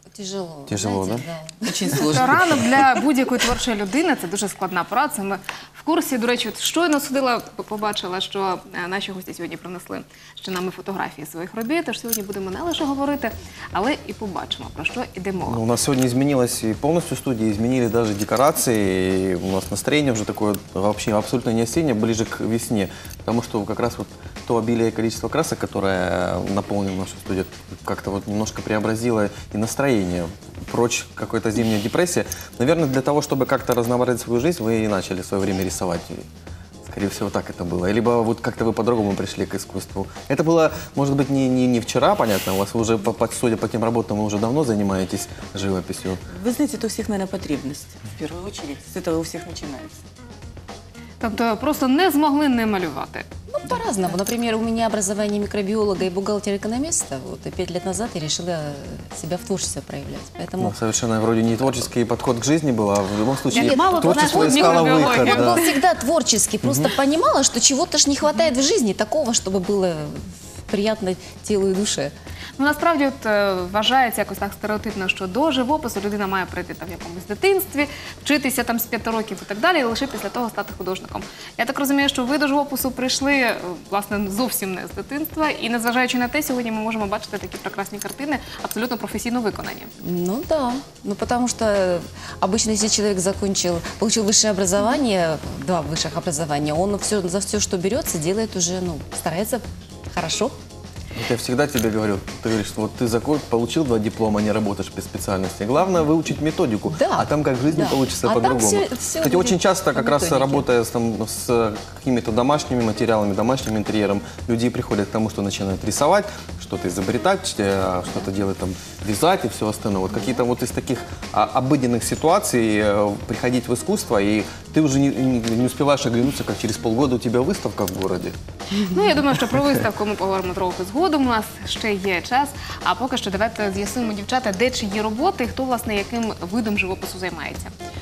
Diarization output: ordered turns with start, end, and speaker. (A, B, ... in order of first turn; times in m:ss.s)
0:00.1-0:01.8 A
0:00.7-0:01.3 B
0:01.6-0:02.8 C
0:01.9-0:15.6 D
0:15.5-0:36.3 B
0:36.9-0:46.2 B
0:46.3-0:50.0 C
0:51.2-0:53.3 D
0:53.5-1:00.8 A
1:00.6-1:05.6 B
1:03.5-1:05.8 D
1:03.5-1:12.1 A
1:12.6-1:29.9 D
1:30.0-1:40.5 A
1:41.2-2:08.4 B
1:46.9-1:50.7 A
2:08.9-2:17.7 D